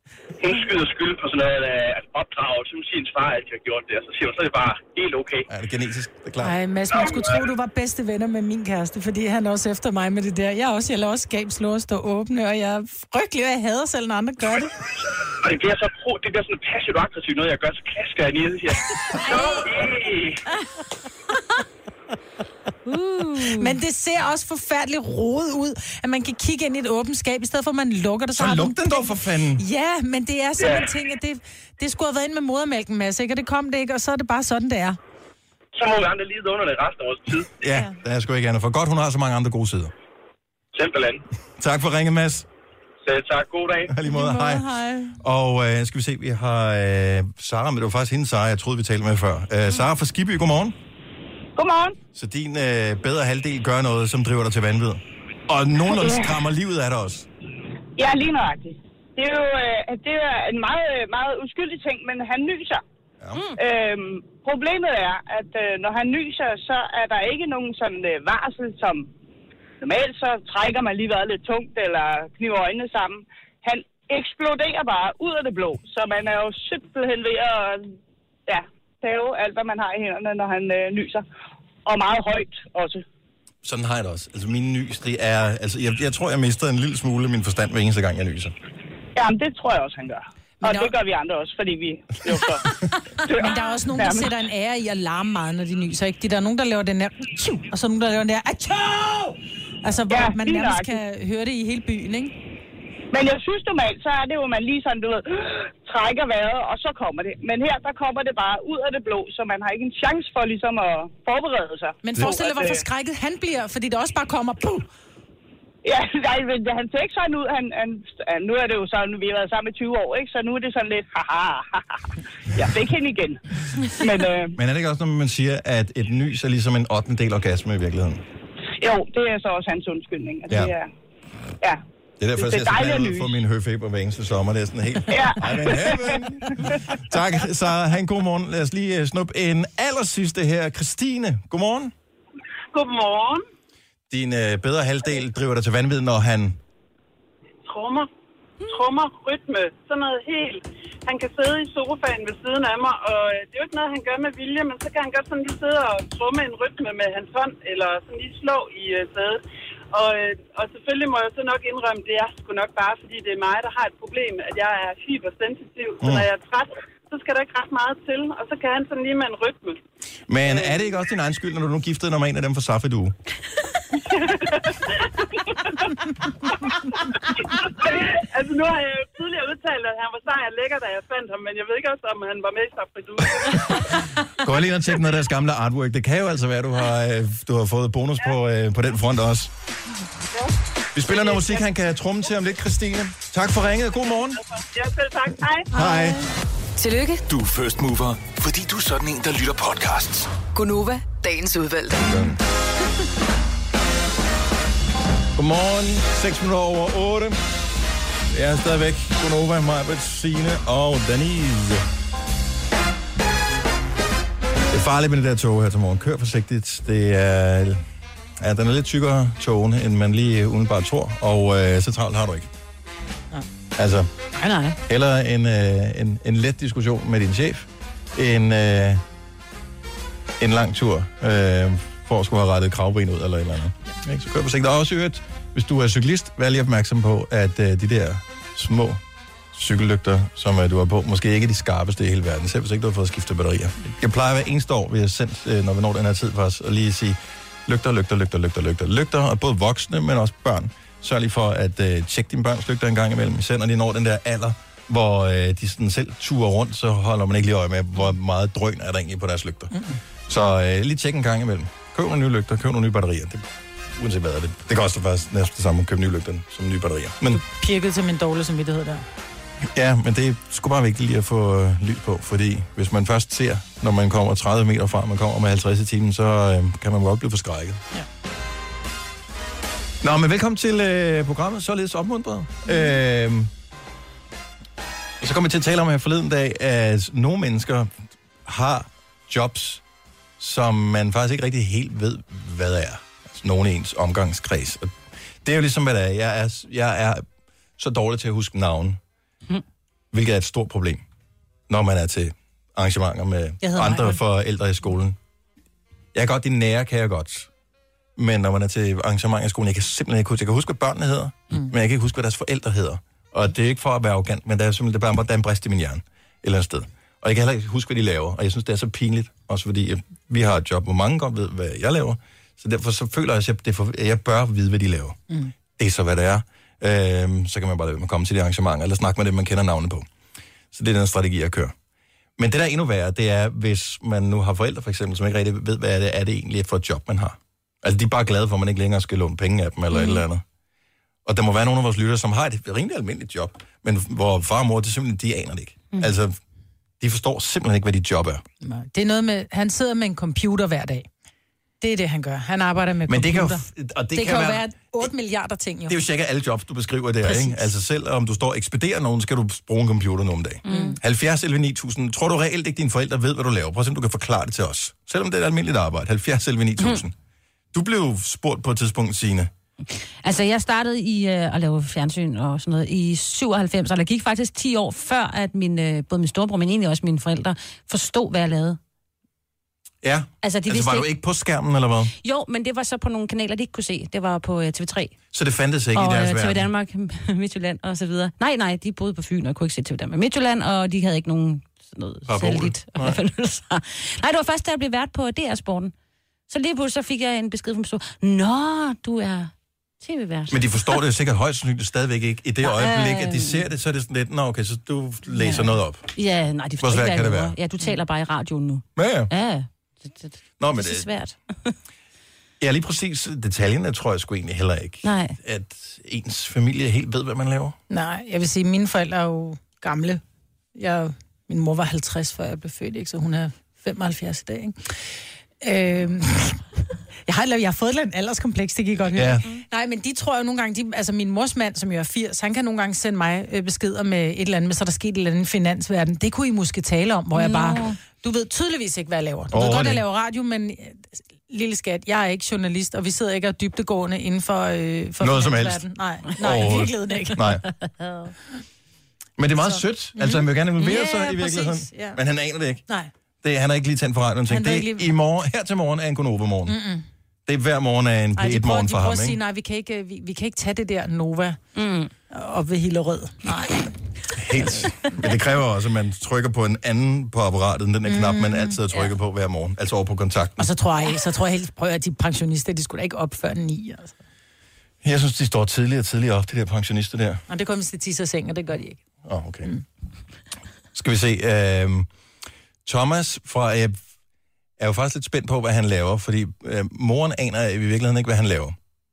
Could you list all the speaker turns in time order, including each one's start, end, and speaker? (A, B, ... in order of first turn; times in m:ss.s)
0:00.4-0:05.5 A
0:05.5-0:06.6 B
0:06.4-0:14.7 C
0:15.4-0:20.4 A
0:22.9-0:23.8 D
0:23.6-0:35.0 C
0:28.3-0:29.6 B
0:30.6-0:30.9 A
0:35.7-0:37.5 A
0:37.6-0:39.9 B
0:37.7-0:38.0 C
0:40.7-0:41.2 A
0:41.6-0:42.5 B
0:43.0-0:43.9 A
0:43.9-0:44.6 B
0:44.0-0:45.2 C
0:45.2-0:50.8 B
0:51.6-0:52.0 E
0:52.1-0:57.3 B
0:55.9-0:56.3 E
0:58.0-1:02.8 E
1:03.3-1:03.6 D
1:03.6-1:09.1 E
1:09.8-1:17.9 E
1:18.5-1:21.2 E
1:21.9-1:23.0 E
1:23.6-1:28.5 B
1:29.1-1:34.3 E
1:30.6-1:31.0 C
1:33.4-1:42.3 C
1:40.1-1:41.0 E
1:43.1-1:52.8 E
1:52.0-1:54.9 C
1:55.8-2:03.4 E
2:04.0-2:04.6 E
2:04.6-2:08.2 B
2:08.8-2:10.9 E
2:10.5-2:10.7 B
2:12.2-2:21.9 B
2:12.4-2:13.3 E
2:15.1-2:16.7 E
2:22.7-2:23.4 F
2:24.1-2:26.6 B
2:27.6-2:28.1 F
2:28.6-2:39.4 F
2:39.9-2:49.8 F
2:46.0-2:46.3 B
2:50.3-2:53.2 B
2:50.5-2:50.8 F
2:54.0-2:55.7 F
2:57.5-3:04.0 F
3:04.4-3:09.5 B
3:10.9-3:14.4 B
3:15.7-3:16.2 B
3:16.8-3:17.2 G
3:17.3-3:20.3 H
3:20.5-3:22.1 G
3:22.0-3:22.4 B
3:25.3-3:27.4 B
3:28.3-3:31.8 B
3:34.7-3:37.8 B
3:38.4-3:42.5 B
3:43.8-3:44.1 B
3:44.4-3:44.8 C
3:44.8-3:49.0 B
3:50.4-3:59.0 B
3:59.5-4:19.7 B
4:20.3-4:23.4 B
4:24.0-4:27.4 B
4:27.3-4:29.0 C
4:29.7-4:37.8 B
4:40.0-4:43.5 B
4:45.2-4:47.9 B
4:48.4-4:49.8 B
4:50.4-4:57.2 B
4:57.8-4:59.0 B
5:00.1-5:01.0 B
5:01.7-5:05.2 B
5:03.6-5:04.2 C
5:06.1-5:07.5 B
5:08.2-5:25.2 B
5:25.7-5:30.1 B
5:30.7-5:31.7 B
5:32.4-5:40.4 B
5:40.0-5:40.2 D
5:41.2-5:46.4 B
5:47.0-5:48.4 B
5:48.6-5:51.1 C
5:51.8-5:56.0 C
5:53.1-5:55.1 B
5:55.9-6:07.1 B
5:57.2-5:57.6 C
6:00.6-6:01.0 D
6:00.7-6:01.0 C
6:07.7-6:09.5 B
6:09.9-6:18.8 D
6:20.0-6:22.1 B
6:20.4-6:21.1 D
6:22.2-6:25.1 D
6:25.3-6:26.7 B
6:26.0-6:35.9 D
6:32.3-6:33.2 B
6:36.5-6:41.0 D
6:40.5-6:46.1 B
6:42.6-6:43.6 D
6:45.4-6:51.8 D
6:46.8-6:47.6 B
6:49.0-6:49.3 B
6:50.6-6:51.1 B
6:52.6-6:57.8 B
6:55.0-6:55.4 D
6:57.9-7:00.2 C
7:00.7-7:05.0 C
7:05.6-7:06.6 C
7:07.3-7:27.4 C
7:09.1-7:09.5 B
7:17.4-7:18.0 D
7:19.5-7:20.0 B
7:25.2-7:25.8 B
7:26.4-7:27.6 B
7:29.4-7:32.8 B
7:29.6-7:32.2 C
7:33.4-7:36.8 B
7:34.5-7:35.1 C
7:36.7-7:37.0 C
7:37.4-7:39.4 B
7:38.4-7:41.6 C
7:41.7-7:42.1 D
7:42.3-7:43.9 C
7:44.3-7:50.7 B
7:44.6-7:44.9 C
7:48.1-7:48.8 C
7:50.6-7:54.1 C
7:55.0-7:57.4 B
7:57.5-7:59.0 C
7:59.2-7:59.7 B
8:00.9-8:02.1 B
8:02.8-8:04.0 B
8:04.8-8:08.8 B